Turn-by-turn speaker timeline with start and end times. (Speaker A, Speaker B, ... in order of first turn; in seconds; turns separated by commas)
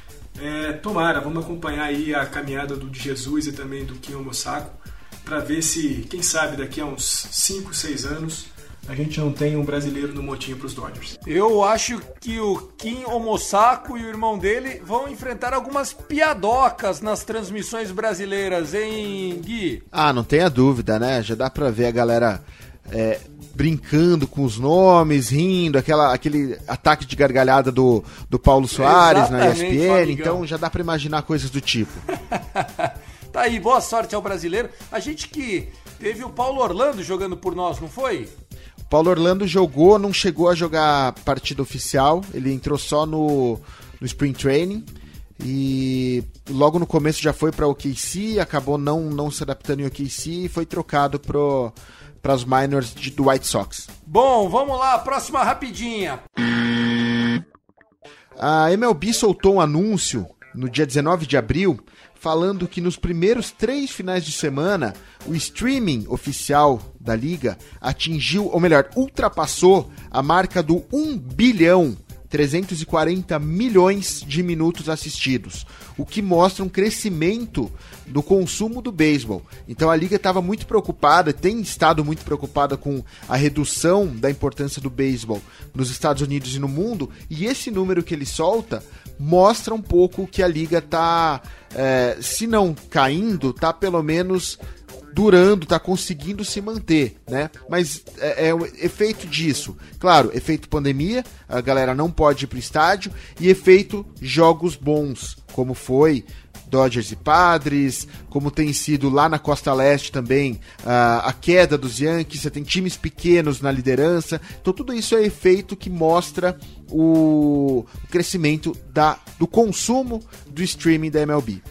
Speaker A: 0.4-11.2, Speaker B: 11.2-19.8, Speaker C: 19.9-32.0, Speaker B: 28.7-30.4, Speaker B: 32.3-38.3, Speaker C: 38.9-53.9, Speaker B: 54.1-56.3, Speaker C: 58.4-94.6, Speaker C: 95.1-121.6